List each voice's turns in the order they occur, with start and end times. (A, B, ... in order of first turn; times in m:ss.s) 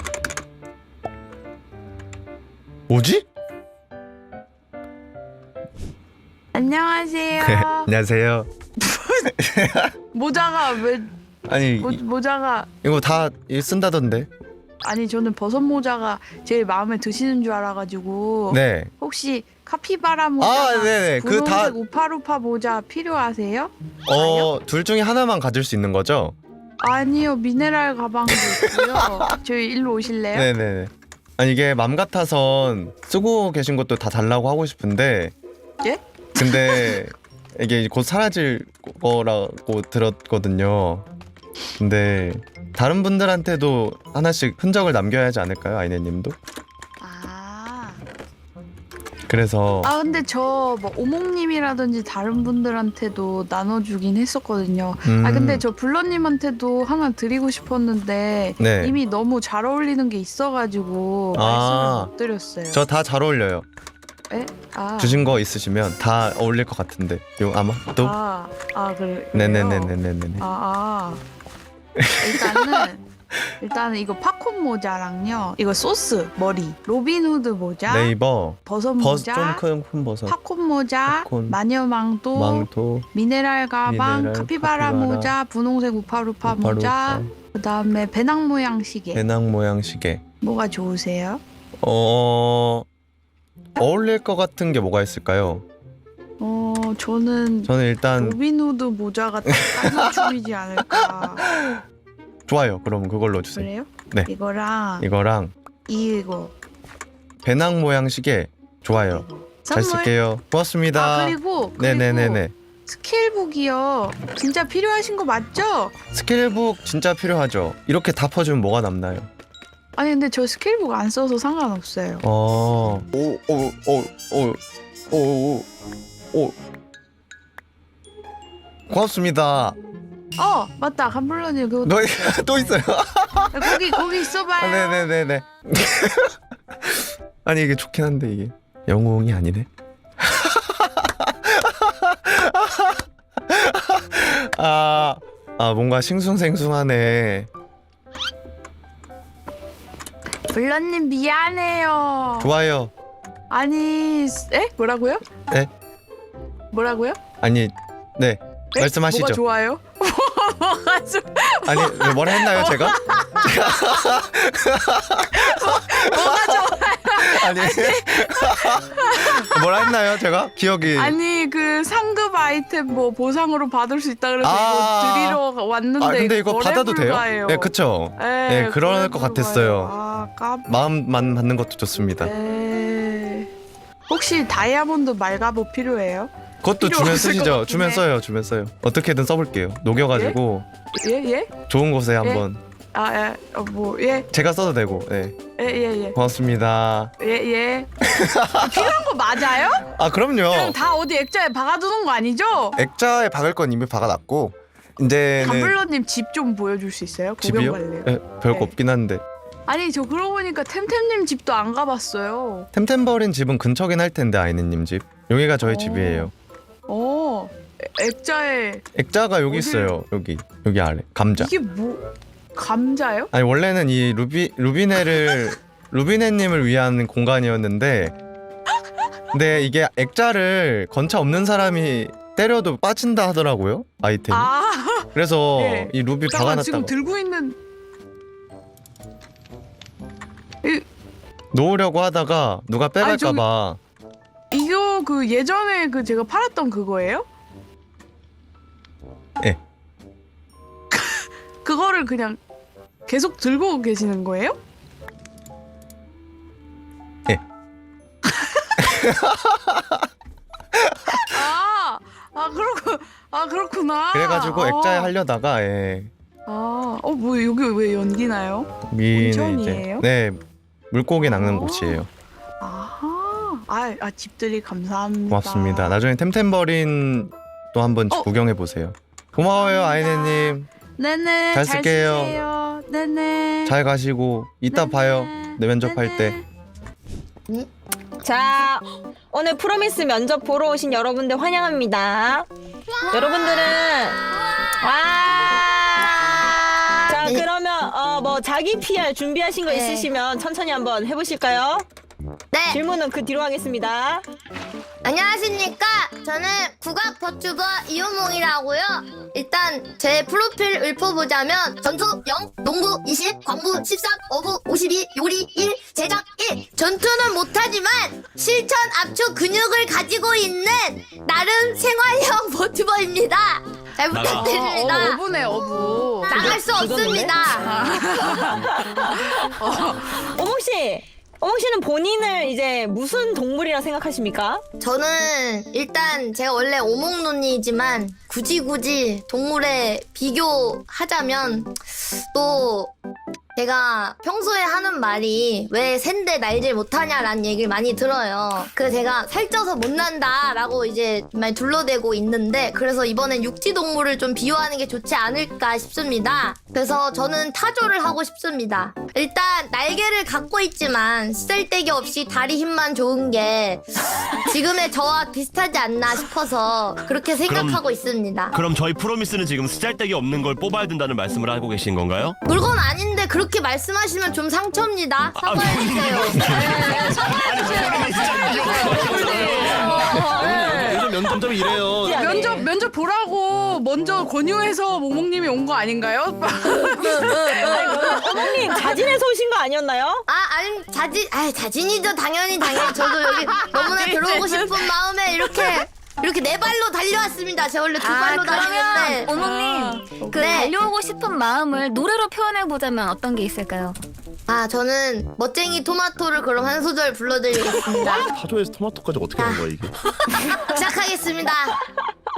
0:02.9-0:03.2 A
0:06.5-0:07.9 B
0:07.4-0:08.5 A
0:08.8-0:09.3 B
0:09.4-0:09.9 A
0:10.1-0:11.1 B
0:11.5-0:12.0 A
0:11.8-0:12.7 B
0:12.8-0:14.3 A
0:14.8-0:24.5 B
0:18.5-0:18.9 A
0:20.4-0:21.8 A
0:24.0-0:26.4 A
0:26.8-0:30.5 B
0:28.3-0:29.2 A
0:30.3-0:35.3 A
0:35.8-0:37.0 B
0:36.4-0:41.1 A
0:41.8-0:46.4 A
0:47.0-0:48.0 B
0:49.3-0:49.9 A
0:49.8-1:02.8 B
0:55.0-0:55.6 A
0:58.6-0:59.0 A
1:01.3-1:02.1 A
1:02.7-1:03.6 A
1:04.3-1:05.3 B
1:05.0-1:08.2 A
1:08.0-1:11.2 B
1:09.3-1:10.5 A
1:12.0-1:12.8 A
1:12.2-1:13.0 B
1:13.6-1:18.1 B
1:17.9-1:20.4 A
1:18.6-1:19.6 B
1:20.3-1:29.2 B
1:21.1-1:21.6 A
1:22.3-1:23.0 A
1:23.8-1:25.3 A
1:26.4-1:27.3 A
1:29.1-1:30.2 A
1:30.4-1:31.4 B
1:31.8-1:32.8 A
1:33.8-1:35.6 A
1:36.4-1:41.4 B
1:37.6-1:38.4 A
1:39.5-1:40.3 A
1:41.4-1:41.8 A
1:42.5-1:44.3 A
1:43.5-1:45.1 B
1:45.0-1:45.5 A
1:45.9-1:46.5 B
1:47.4-1:52.5 A
1:49.6-1:50.1 B
1:50.9-1:55.9 B
1:56.1-1:59.3 A
2:00.0-2:02.2 B
2:02.2-2:05.7 A
2:08.9-2:09.8 A
2:10.4-2:12.8 B
2:11.8-2:13.8 A
2:13.5-2:15.0 B
2:14.6-2:19.7 A
2:20.2-2:27.5 A
2:30.5-2:32.5 B
2:32.4-2:32.9 A
2:33.5-2:35.2 B
2:36.7-2:37.2 B
2:37.4-2:39.4 A
2:38.7-2:43.7 B
2:41.6-2:51.2 A
2:45.3-2:49.6 B
2:50.9-3:00.7 B
2:54.4-2:55.4 A
2:56.0-2:59.9 A
3:00.6-3:02.3 A
3:02.2-3:03.5 B
3:04.1-3:08.0 B
3:06.6-3:10.7 A
3:10.1-3:10.4 B
3:10.9-3:11.5 B
3:11.7-3:12.6 A
3:12.2-3:14.3 B
3:14.3-3:15.4 A
3:15.6-3:16.2 B
3:16.1-3:17.1 A
3:17.2-3:17.9 B
3:18.1-3:19.0 A
3:18.6-3:19.8 B
3:19.9-3:20.8 A
3:20.5-3:22.8 B
3:22.7-3:25.8 A
3:25.4-3:28.7 B
3:27.4-3:29.2 A
3:29.7-3:32.7 B
3:32.7-3:36.3 A
3:35.6-3:36.3 B
3:36.9-3:38.8 B
3:38.9-3:41.5 A
3:39.5-3:39.9 B
3:41.3-3:43.3 B
3:43.3-3:48.1 A
3:49.3-3:54.5 A
3:54.3-3:57.6 B
3:55.1-3:56.9 A
4:01.5-4:03.8 A
4:03.0-4:03.4 B
4:04.5-4:07.2 B
4:10.9-4:12.4 B
4:13.1-4:14.6 B
4:18.2-4:18.7 B
4:18.8-4:20.0 A
4:20.7-4:21.2 A
4:21.2-4:25.1 B
4:24.1-4:26.1 A
4:26.5-4:30.0 B
4:28.8-4:30.4 A
4:30.9-4:32.1 A
4:31.2-4:32.0 B
4:32.6-4:36.0 B
4:35.3-4:40.7 A
4:39.5-4:43.8 B
4:41.5-4:42.4 A
4:43.6-4:46.4 A
4:44.7-4:46.4 B
4:48.2-4:52.5 C
4:53.0-4:53.8 D
4:53.1-4:54.2 C
4:54.8-4:56.5 C
4:56.1-4:57.4 D
4:57.0-5:01.8 C
4:59.7-5:00.1 E
5:02.5-5:02.8 D
5:02.7-5:04.2 C
5:05.0-5:27.8 D
5:24.1-5:24.5 F
5:24.2-5:26.5 B
5:26.3-5:27.3 C
5:27.6-5:28.6 B
5:28.4-5:34.6 C
5:29.6-5:30.2 B
5:34.8-5:42.9 D
5:43.6-6:08.6 D
6:07.5-6:07.8 F
6:08.5-6:12.4 F
6:12.4-6:17.1 D
6:15.4-6:21.0 F
6:16.6-6:17.2 C
6:17.5-6:21.2 B
6:18.5-6:21.0 C
6:19.8-6:22.5 G
6:21.9-6:22.7 C
6:22.0-6:29.1 B
6:26.6-6:30.2 C
6:30.3-6:39.3 D
6:38.0-6:44.0 E
6:39.4-6:40.7 B
6:40.3-6:40.7 D
6:44.5-6:48.3 D
6:48.1-6:49.9 G
6:49.4-6:49.6 D
6:50.6-6:51.8 D